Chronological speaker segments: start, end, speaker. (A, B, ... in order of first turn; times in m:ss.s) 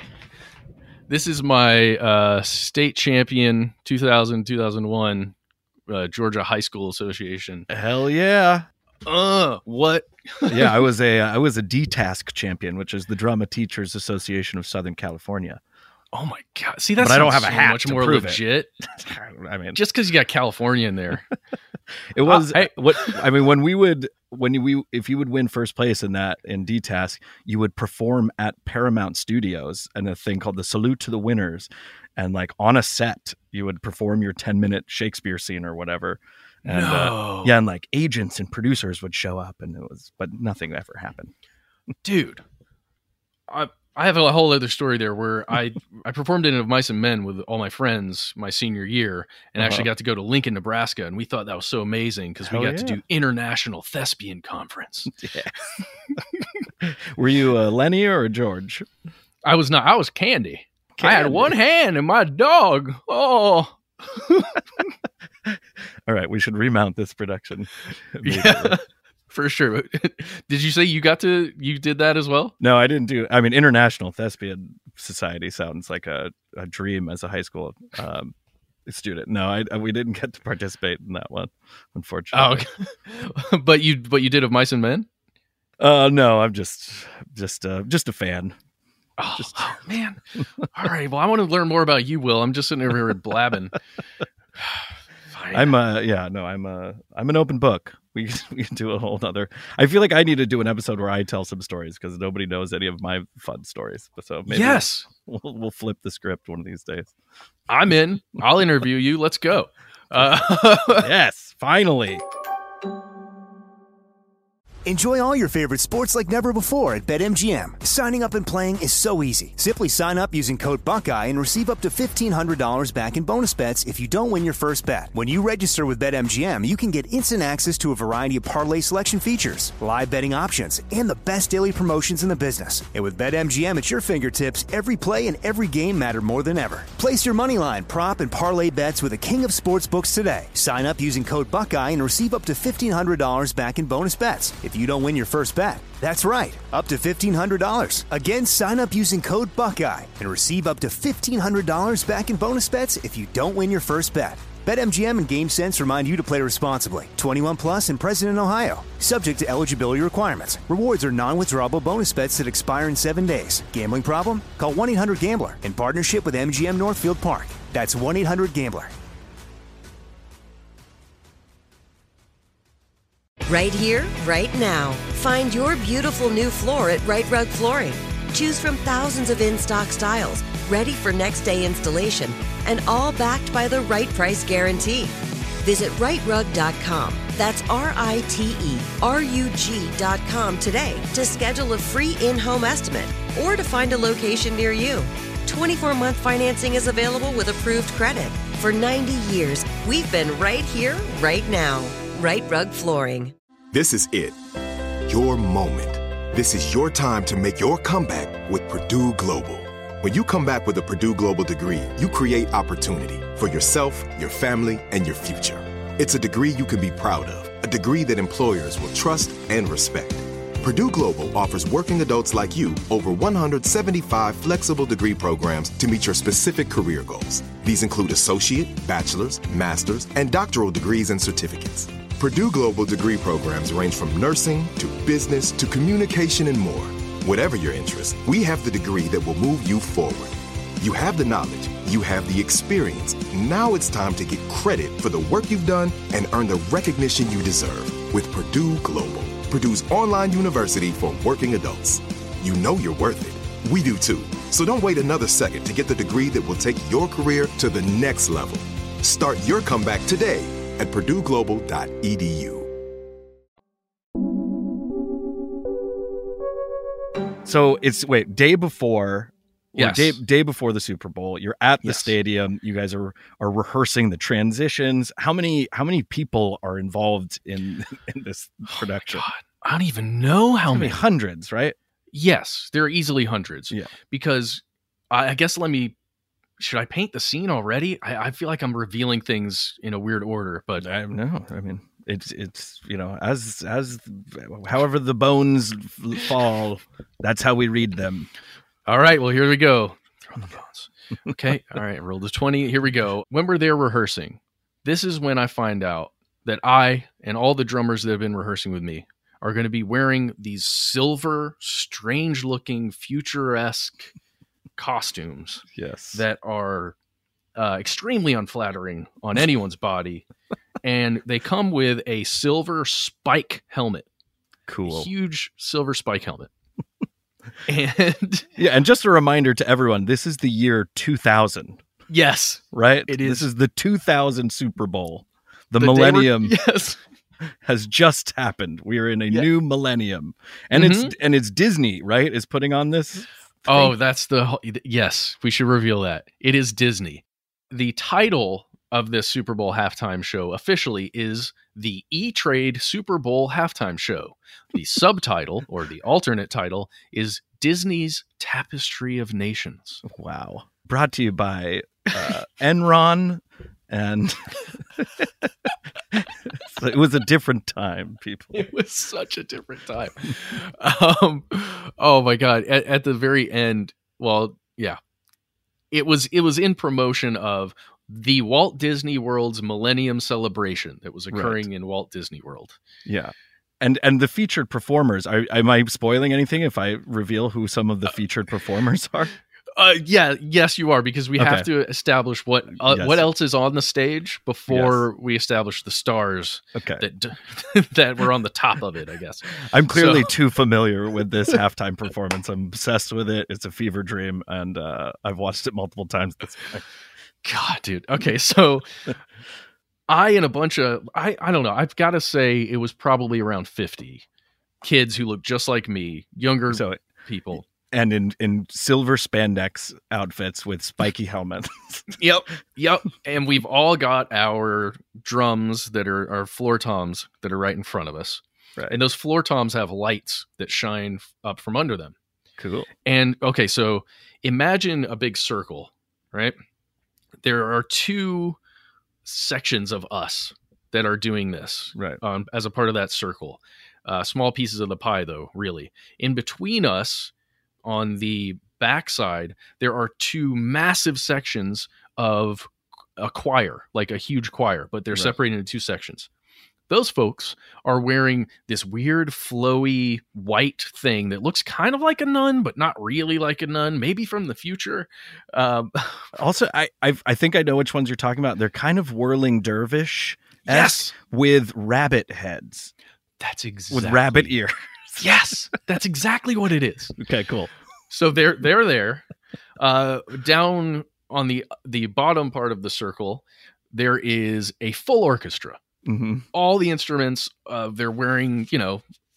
0:01.1-0:05.4 A
0:05.9-0:07.7 A
0:07.7-0:08.6 B
0:09.1-0:10.8 A
0:10.5-0:15.6 B
0:16.1-0:18.8 A
0:17.0-0:19.8 B
0:19.7-0:21.2 A
0:22.1-0:41.3 B
0:22.3-0:23.2 A
0:36.6-0:37.6 A
0:42.0-0:42.4 A
0:43.5-0:55.1 A
0:49.6-0:49.9 B
0:52.4-0:53.0 B
0:55.2-0:56.2 B
0:56.8-0:58.9 B
0:59.4-1:04.5 A
1:01.0-1:01.5 B
1:06.1-1:08.8 B
1:08.2-1:12.6 A
1:12.6-1:18.3 B
1:18.9-1:22.7 B
1:22.3-1:25.1 A
1:25.8-1:28.6 B
1:29.2-1:30.2 A
1:29.4-1:29.6 B
1:30.7-1:33.8 A
1:35.3-1:35.7 A
1:35.5-1:47.1 B
1:44.5-1:45.1 A
1:47.7-1:51.1 A
1:51.0-1:52.2 B
1:54.8-2:48.9 C
2:53.5-3:23.3 D
3:23.7-3:24.4 E
3:25.1-4:22.7 E
4:27.5-4:39.3 B
4:29.8-4:30.2 A
4:31.8-4:32.1 A
4:38.7-4:41.0 A
4:40.7-4:41.8 B
4:42.1-4:45.9 A
4:46.6-4:50.9 A
4:50.8-4:58.3 B
4:58.9-5:14.1 A
5:14.8-5:17.0 A
5:15.8-5:16.2 B
5:17.6-5:20.2 A
5:20.8-5:24.1 A
5:24.7-5:25.1 B
5:24.9-5:26.5 A
5:27.7-5:28.5 A
5:28.6-5:31.8 B
5:32.1-5:33.5 A
5:32.7-5:36.6 B
5:35.8-5:37.0 A
5:37.6-5:44.0 B
5:40.7-5:41.1 A
5:43.7-6:00.0 A
6:00.1-6:05.3 B
6:06.1-6:08.7 B
6:08.5-6:15.0 A
6:15.9-6:22.8 A
6:21.3-6:21.7 B
6:23.1-6:29.3 B
6:29.8-6:40.3 A
6:31.4-6:31.7 B
6:32.8-6:33.3 B
6:34.7-6:35.1 B
6:36.8-6:37.0 B
6:39.6-6:46.9 B
6:47.4-6:48.8 A
6:50.1-6:54.2 A
6:54.8-6:57.6 A
6:56.7-6:57.0 B
6:57.9-7:02.1 B
7:02.2-7:12.2 A
7:12.6-7:12.9 B
7:13.1-7:16.6 A
7:17.4-7:18.6 A
7:19.2-7:27.3 A
7:22.0-7:22.2 B
7:27.8-7:36.3 A
7:36.9-7:46.4 A
7:46.4-7:52.9 B
7:50.7-7:51.1 A
7:53.4-7:54.5 A
7:53.9-7:55.2 B
7:55.2-7:57.2 A
7:57.2-7:57.7 B
7:58.1-7:59.2 A
7:59.8-8:05.8 A
8:06.1-8:06.5 B
8:06.5-8:09.0 A